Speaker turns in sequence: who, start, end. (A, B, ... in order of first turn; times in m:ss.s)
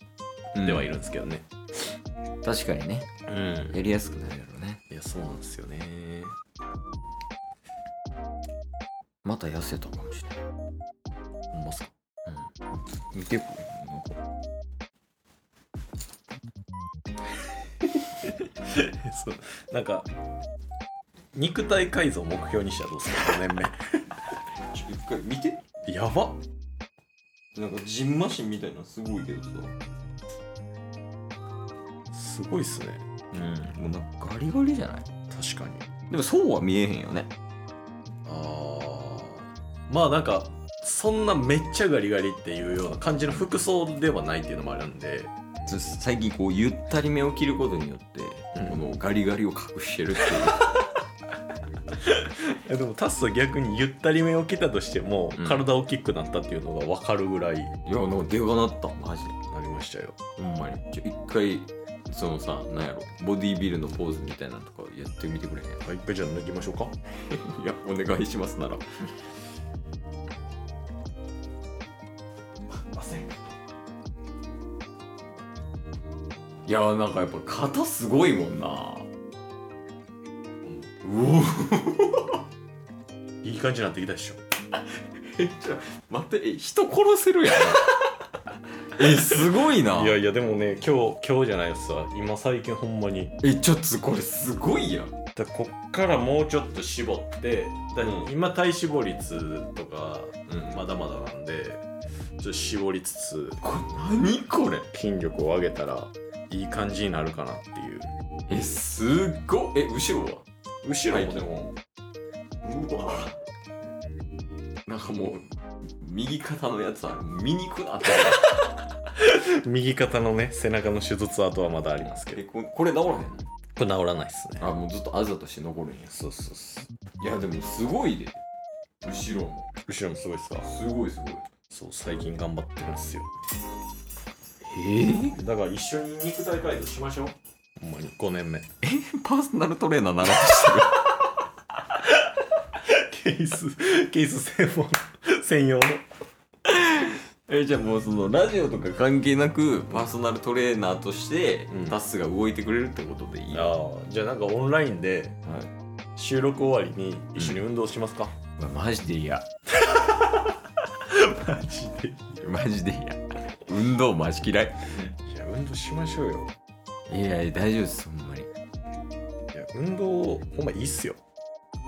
0:00.6-0:00.9 A
0:00.6-0:01.5 B
0:02.4-0:03.1 A
0:03.3-0:03.8 B
0:03.7-0:04.8 A
0:04.9-0:06.4 B
0:09.2-0:10.4 A
0:11.5-0:11.9 B
0:13.1-0:14.2 A
0:18.7-0:20.1 B
0:21.3-0:23.8 B
0:24.7-0:25.6 A
0:25.9-0:26.4 B
0:27.5-0:29.7 A
0:32.1-0:33.0 B
0:33.3-0:35.0 A
0:35.3-0:35.9 B
0:36.1-0:37.3 A
0:38.3-0:45.3 B
0:45.7-0:50.7 A
0:52.0-0:57.8 B
0:55.4-0:55.7 A
0:57.9-0:59.4 A
0:59.5-1:00.2 B
1:00.4-1:05.8 A
1:05.8-1:06.9 B
1:07.3-1:08.9 A
1:12.9-1:13.3 B
1:16.7-1:19.1 A
1:21.0-1:22.4 A
1:23.4-1:24.4 B
1:25.2-1:28.0 A
1:28.9-1:30.2 A
1:29.8-1:33.4 B
1:33.4-1:35.2 A
1:35.4-1:41.8 B
1:38.0-1:38.3 A
1:40.5-1:40.8 A
1:42.4-1:43.6 B
1:43.6-1:44.9 A
1:44.9-1:48.1 B
1:48.5-1:50.4 A
1:50.8-1:51.7 B
1:51.1-1:51.5 A
1:52.6-1:53.4 A
1:54.9-1:58.5 A
1:58.2-1:58.6 B
1:59.2-2:02.4 B
2:02.0-2:03.4 A
2:03.8-2:04.7 B
2:04.6-2:06.2 A
2:06.1-2:06.9 B
2:07.2-2:08.4 A
2:09.0-2:09.7 A
2:09.9-2:10.7 B
2:10.6-2:11.4 A
2:11.7-2:13.3 B
2:14.6-2:15.4 A
2:15.3-2:18.7 B
2:18.8-2:21.1 A
2:22.8-2:26.0 B
2:26.6-2:33.7 A
2:31.7-2:32.0 B
2:33.5-2:35.4 B
2:36.2-2:38.4 B
2:37.4-2:37.6 A
2:38.6-2:39.4 A
2:39.8-2:40.4 B
2:41.0-2:42.4 B
2:42.4-2:45.0 A
2:45.0-2:46.5 B
2:47.1-2:48.5 A
2:49.5-2:51.2 B